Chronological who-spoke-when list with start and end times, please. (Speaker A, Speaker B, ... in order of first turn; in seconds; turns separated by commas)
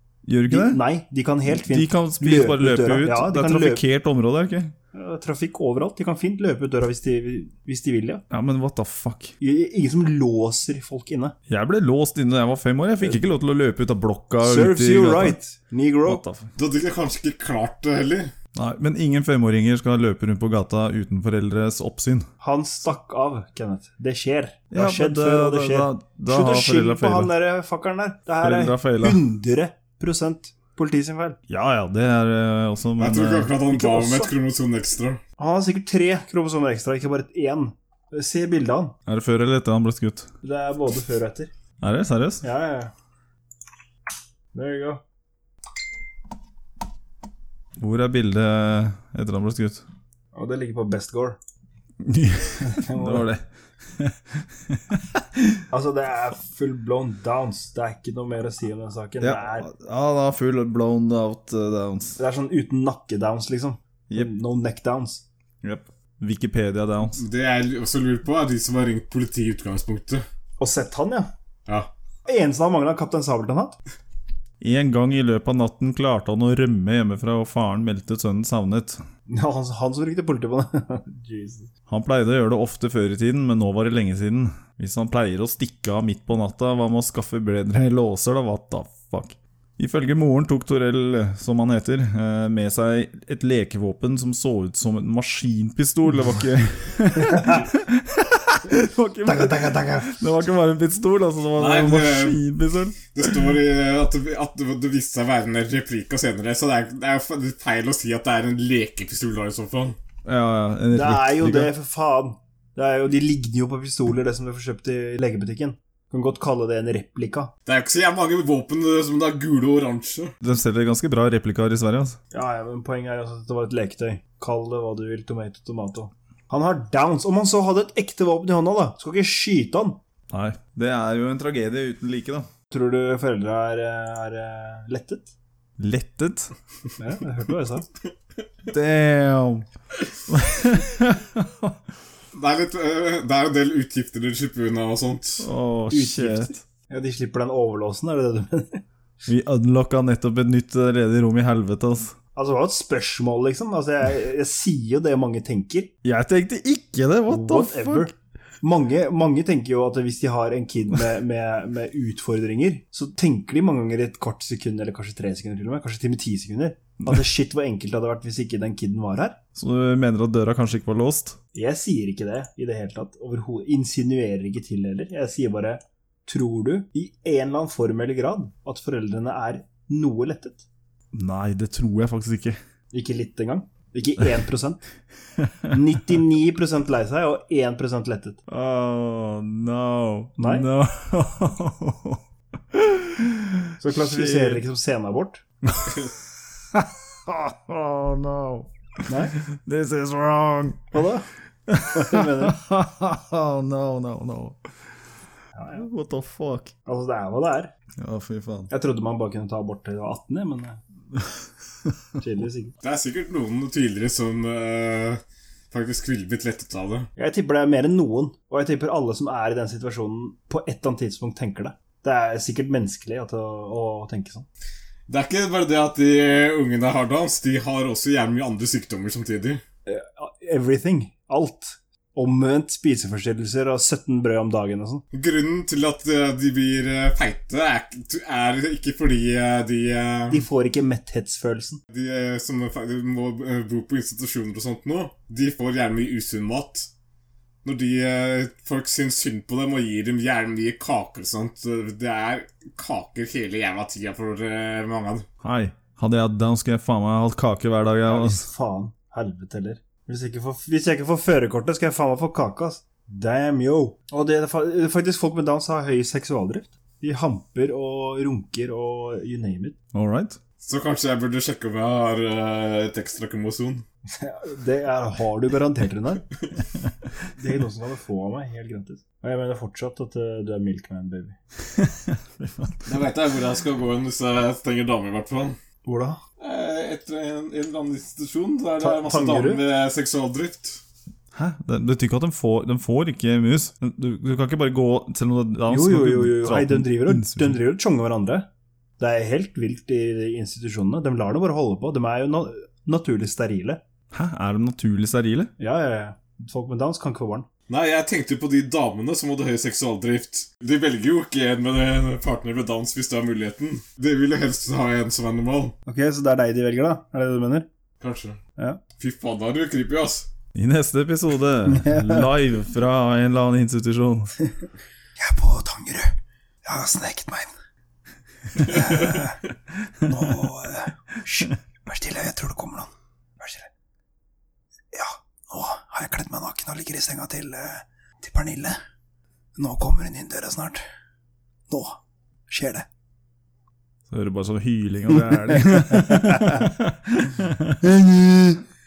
Speaker A: 0.2-0.8, Speaker B: 0.5-3.8, Speaker A: 1.4-4.7, Speaker B: 4.9-8.2, Speaker A: 8.3-9.3, Speaker B: 9.4-11.3, Speaker A: 11.5-15.3, Speaker B: 14.4-16.2, Speaker A: 16.1-16.5, Speaker C: 16.6-18.3, Speaker A: 18.5-22.3, Speaker B: 22.4-31.4, Speaker A: 24.7-27.3, Speaker A: 28.4-29.2, Speaker A: 31.5-33.5, Speaker C: 33.0-35.2, Speaker B: 33.7-34.3, Speaker B: 35.4-39.0, Speaker A: 39.0-40.3, Speaker B: 40.4-41.5, Speaker A: 41.8-42.4, Speaker B: 42.4-42.9, Speaker B: 44.5-45.0, Speaker A: 47.8-49.9, Speaker B: 50.3-51.4, Speaker A: 52.0-55.6, Speaker B: 52.6-53.2, Speaker B: 55.7-59.6, Speaker A: 59.2-62.2, Speaker B: 62.2-65.2, Speaker A: 65.6-67.2, Speaker C: 67.2-70.2, Speaker B: 70.6-71.3, Speaker B: 72.2-73.8, Speaker A: 74.6-79.0, Speaker B: 79.3-81.7, Speaker A: 81.9-103.3, Speaker B: 99.2-100.1, Speaker C: 101.6-102.4, Speaker C: 103.1-110.0, Speaker A: 110.2-111.7, Speaker B: 110.9-117.5, Speaker C: 117.7-120.3, Speaker A: 120.4-122.2, Speaker B: 122.3-130.0, Speaker A: 130.3-132.5, Speaker B: 132.7-135.3, Speaker A: 135.8-136.5, Speaker B: 137.0-137.9, Speaker A: 138.7-139.7, Speaker A: 140.3-141.7, Speaker C: 142.3-145.4, Speaker A: 145.4-146.6, Speaker B: 145.9-148.8, Speaker A: 149.2-152.1, Speaker B: 152.3-155.9, Speaker A: 156.0-158.1, Speaker B: 157.3-169.4, Speaker A: 167.0-167.2, Speaker A: 169.5-171.4, Speaker B: 171.5-180.6, Speaker A: 181.1-182.6, Speaker B: 182.9-184.8, Speaker A: 185.4-185.7, Speaker B: 185.7-188.4, Speaker A: 188.5-192.2, Speaker B: 190.4-190.7, Speaker A: 192.7-194.6, Speaker B: 193.8-195.4, Speaker A: 195.6-196.1, Speaker A: 196.7-200.9, Speaker B: 199.1-199.3, Speaker B: 200.9-201.3, Speaker A: 201.7-204.6, Speaker B: 201.8-202.6, Speaker B: 205.5-205.9, Speaker A: 205.8-206.7, Speaker B: 206.8-207.7, Speaker A: 208.0-208.7, Speaker B: 208.7-210.8, Speaker B: 212.2-212.7, Speaker C: 212.8-217.1, Speaker B: 217.2-224.4, Speaker C: 225.1-229.6, Speaker B: 229.8-235.0, Speaker C: 235.1-240.4, Speaker B: 240.3-241.8, Speaker C: 241.9-246.9, Speaker C: 247.6-255.2, Speaker A: 255.4-258.4, Speaker B: 258.1-269.8, Speaker A: 269.9-270.4, Speaker C: 270.6-273.8, Speaker B: 274.1-276.2, Speaker B: 277.3-281.4, Speaker A: 281.8-282.8, Speaker C: 282.9-285.6, Speaker B: 285.8-286.2, Speaker C: 286.4-290.8, Speaker B: 288.8-289.6, Speaker A: 291.3-297.6, Speaker B: 295.7-298.5, Speaker B: 299.0-303.8, Speaker A: 304.1-305.5, Speaker B: 305.6-307.5, Speaker C: 307.7-315.7, Speaker B: 315.9-317.7, Speaker C: 318.0-318.4, Speaker C: 319.0-320.2, Speaker A: 320.5-324.3, Speaker B: 321.7-322.3, Speaker B: 325.2-327.5, Speaker C: 328.6-329.1, Speaker B: 328.7-329.4, Speaker B: 330.1-333.7, Speaker B: 334.9-338.8, Speaker B: 339.6-340.8, Speaker B: 341.7-342.9, Speaker A: 344.1-347.8, Speaker B: 345.9-346.5, Speaker B: 347.8-348.6